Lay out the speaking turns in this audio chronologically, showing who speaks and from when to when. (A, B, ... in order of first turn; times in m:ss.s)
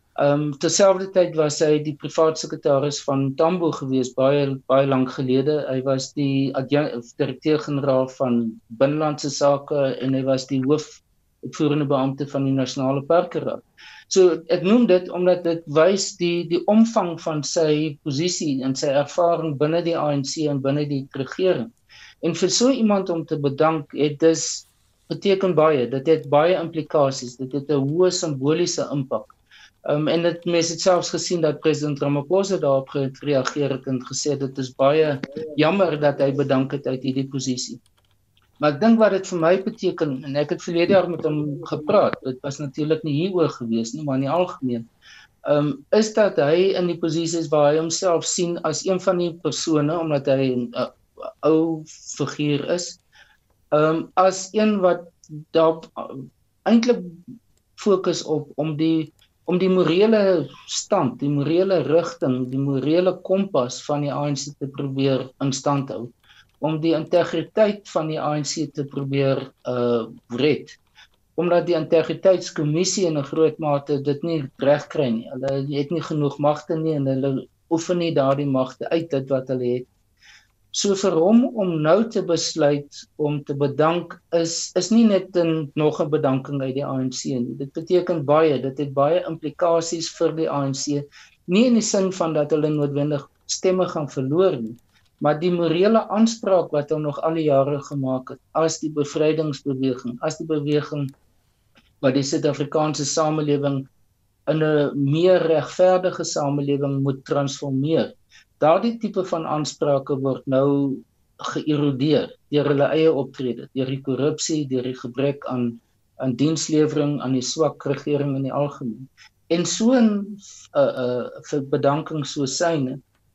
0:00.2-0:29.3 A
0:29.8-0:37.8 A
0:38.6-0:44.9 A
0:45.4-0:53.0 A
0:53.7-0:57.2 A
0:57.8-1:10.8 A
1:11.4-1:19.9 A
1:20.7-1:41.1 A
1:42.0-1:43.9 A
1:44.5-2:03.0 A